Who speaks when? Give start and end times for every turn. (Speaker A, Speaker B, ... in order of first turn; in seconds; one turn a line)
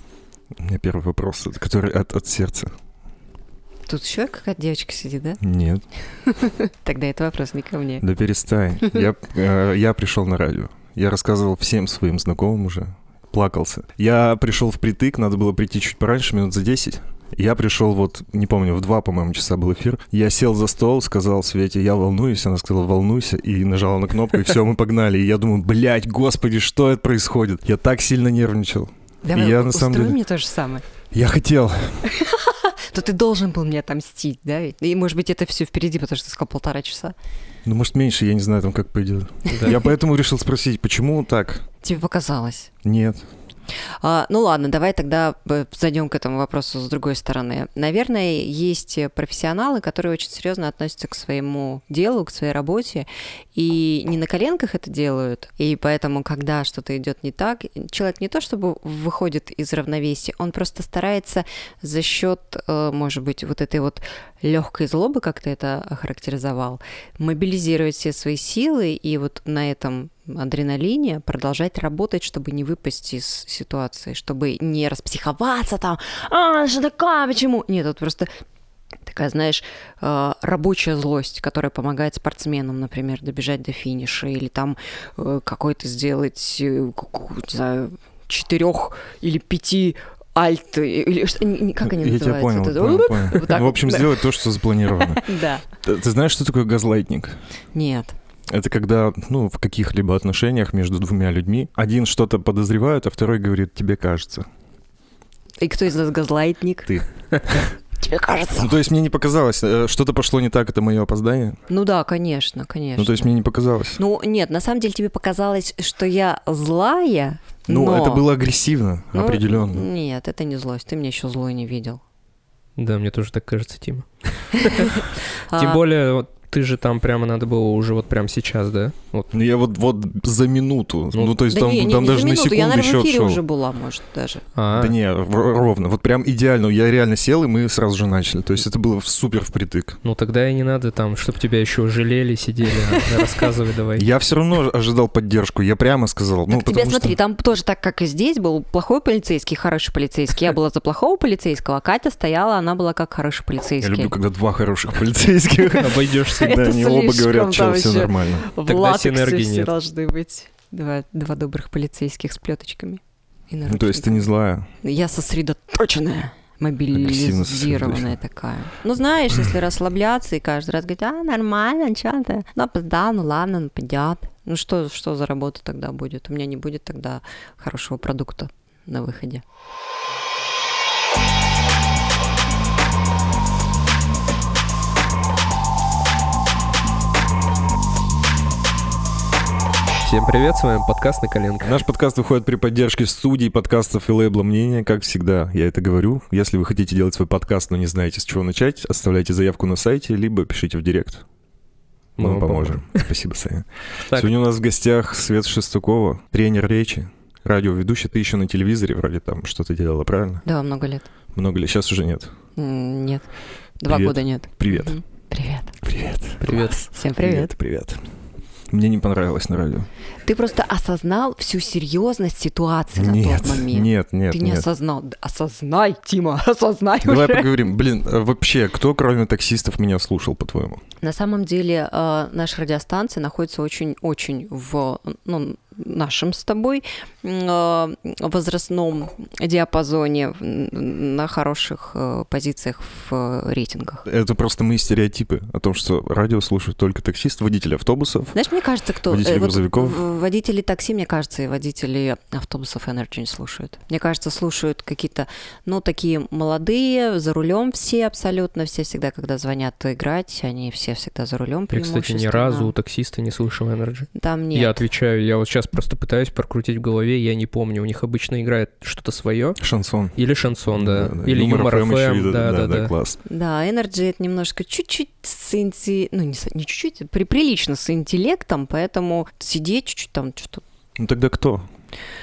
Speaker A: 0.6-2.7
Speaker B: 3.9-5.4
Speaker A: 5.4-5.8
Speaker B: 6.2-8.0
Speaker A: 8.0-30.1
Speaker B: 29.2-30.8
Speaker A: 31.1-32.1
Speaker B: 32.0-37.1
Speaker A: 37.6-41.6
Speaker B: 41.8-42.7
Speaker A: 42.8-43.2
Speaker B: 43.7-78.3
Speaker B: 79.0-95.7
Speaker A: 91.9-95.3
Speaker A: 95.8-97.4
Speaker B: 97.7-98.2
Speaker A: 98.5-104.5
Speaker B: 105.6-107.0
Speaker A: 106.9-107.7
Speaker B: 108.0-108.7
Speaker A: 108.5-111.6
Speaker B: 111.7-113.3
Speaker A: 113.0-114.0
Speaker B: 114.0-118.3
Speaker A: 117.7-119.8
Speaker B: 119.1-122.0
Speaker C: 122.8-125.0
Speaker B: 124.5-125.8
Speaker C: 125.5-129.3
Speaker A: 129.3-133.4
Speaker B: 131.5-134.4
Speaker C: 134.5-134.9
Speaker A: 134.7-140.0
Speaker C: 140.0-144.0
Speaker B: 142.9-143.3
Speaker A: 144.0-147.2
Speaker B: 146.5-154.2
Speaker A: 153.8-158.5
Speaker C: 155.8-156.6
Speaker B: 156.2-164.3
Speaker C: 158.6-159.7
Speaker A: 163.7-164.7
Speaker B: 164.8-179.4
Speaker A: 166.9-168.1
Speaker C: 190.0-191.8
Speaker A: 191.6-201.2
Speaker C: 202.2-203.0
Speaker A: 202.2-210.4
Speaker B: 210.4-211.1
Speaker A: 211.3-212.3
Speaker B: 212.6-213.3
Speaker B: 213.8-215.7
Speaker A: 213.9-215.0
Speaker A: 215.8-218.0
Speaker C: 216.4-216.8
Speaker B: 216.5-217.5
Speaker A: 218.7-219.9
Speaker B: 220.2-227.5
Speaker A: 223.0-224.7
Speaker A: 227.0-230.8
Speaker B: 231.0-244.0
Speaker A: 244.1-248.4
Speaker B: 248.3-262.7
Speaker A: 249.1-250.0
Speaker C: 261.7-269.6
Speaker B: 264.1-264.8
Speaker A: 269.6-270.1
Speaker C: 270.1-272.9
Speaker A: 270.7-273.2
Speaker B: 273.2-280.6
Speaker A: 281.0-281.6